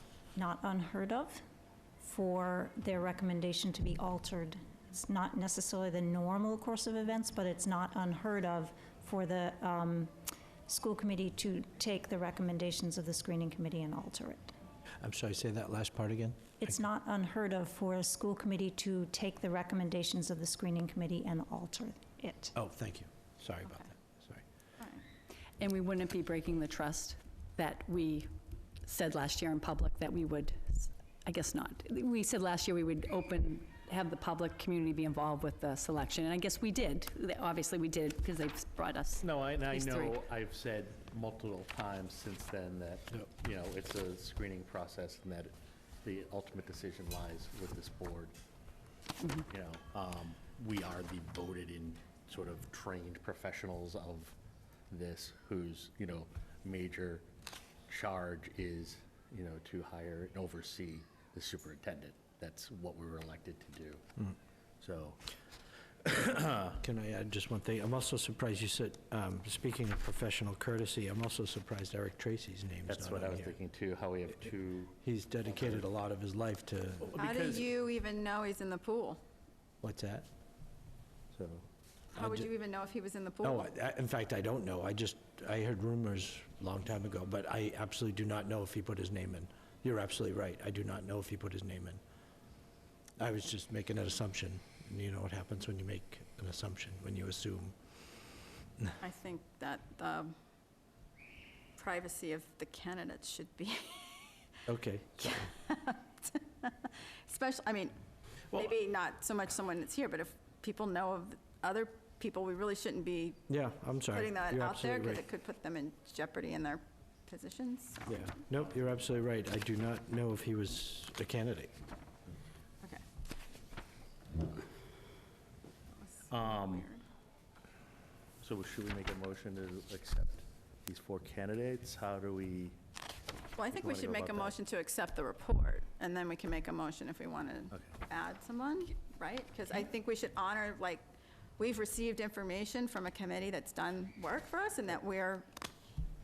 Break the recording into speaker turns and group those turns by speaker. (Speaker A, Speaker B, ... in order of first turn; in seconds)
Speaker A: 0.3-1.4, 2.0-10.1, 10.7-14.5, 16.6-22.6
Speaker B: 15.0-16.7, 22.6-24.4, 66.0-73.5, 75.0-77.2, 79.8-80.3, 82.2-82.5, 83.4-92.0, 93.2-97.7, 104.7-105.5, 113.5-115.2, 118.1-121.7
Speaker C: 25.6-28.3, 28.8-40.2
Speaker D: 39.2-48.3, 49.5-54.4, 54.9-57.2, 57.9-64.0, 64.8-65.2, 72.9-75.8, 77.0-77.6, 81.3-81.6, 126.3-126.9, 128.4-132.8, 133.7-134.5
Speaker E: 77.2-79.2, 82.1-83.6, 99.0-100.3, 101.8-104.6, 105.3-107.9, 108.5-113.5, 114.1-118.1, 125.9-127.0, 133.6-141.1, 141.6-145.5